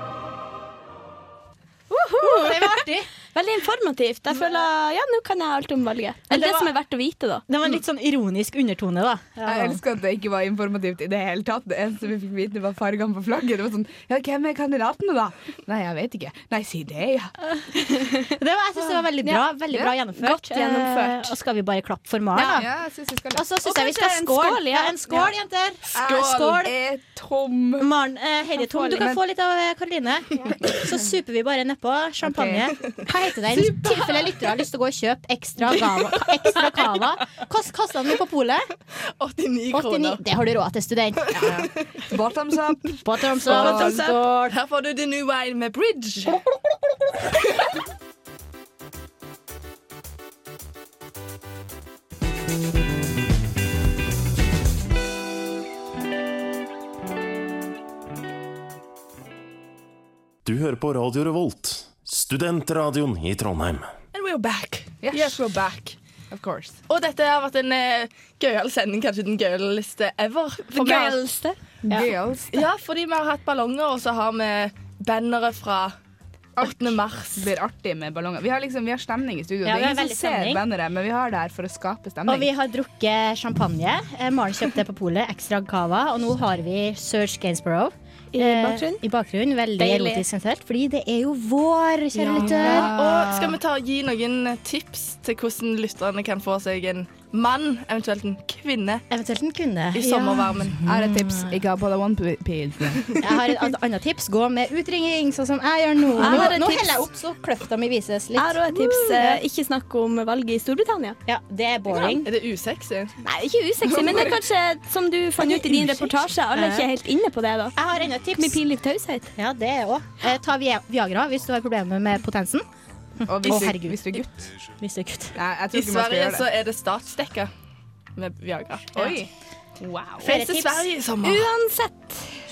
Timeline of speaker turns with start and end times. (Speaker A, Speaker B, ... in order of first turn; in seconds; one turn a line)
Speaker A: 1.9-7.5
Speaker B: 2.2-3.1
Speaker B: 6.3-6.7
Speaker B: 7.5-9.8
Speaker C: 9.4-17.4
Speaker B: 18.3-22.7
Speaker A: 19.2-19.5
Speaker A: 20.2-21.3
Speaker C: 22.4-23.4
Speaker B: 23.4-26.7
Speaker A: 23.6-25.3
Speaker D: 25.9-26.6
Speaker C: 26.0-27.9
Speaker B: 27.8-38.7
Speaker A: 28.7-29.0
Speaker C: 32.2-32.7
Speaker D: 39.2-40.2
Speaker B: 39.7-41.6
Speaker D: 41.4-41.7
Speaker C: 42.1-44.0
Speaker B: 43.0-44.5
Speaker A: 43.5-44.2
Speaker D: 44.5-46.4
Speaker E: 60.5-63.9
Speaker D: 64.1-66.0
Speaker C: 65.0-65.4
Speaker C: 66.3-66.8
Speaker D: 66.9-71.3
Speaker A: 70.8-71.6
Speaker C: 71.9-72.6
Speaker D: 72.5-75.9
Speaker C: 76.6-82.5
Speaker D: 76.6-77.5
Speaker B: 79.6-80.6
Speaker B: 82.3-93.1
Speaker A: 88.3-89.0
Speaker A: 89.8-90.2
Speaker D: 92.2-99.1
Speaker C: 92.4-93.2
Speaker B: 99.1-101.6
Speaker D: 99.9-100.8
Speaker C: 100.8-103.2
Speaker B: 103.2-109.4
Speaker A: 106.2-107.1
Speaker A: 108.4-111.2
Speaker B: 111.3-112.3
Speaker D: 111.9-113.2
Speaker A: 113.2-117.8
Speaker C: 113.9-114.3
Speaker C: 115.7-116.1
Speaker B: 116.5-116.9
Speaker B: 117.8-118.6
Speaker A: 118.4-119.3
Speaker B: 119.4-122.7
Speaker B: 123.2-124.2
Speaker C: 123.3-124.5
Speaker B: 124.8-125.4
Speaker C: 125.3-126.5
Speaker D: 125.7-127.5
Speaker D: 128.2-129.3
Speaker C: 129.0-129.3
Speaker C: 129.8-130.3
Speaker B: 130.2-130.9
Speaker D: 130.2-131.5
Speaker A: 131.2-132.3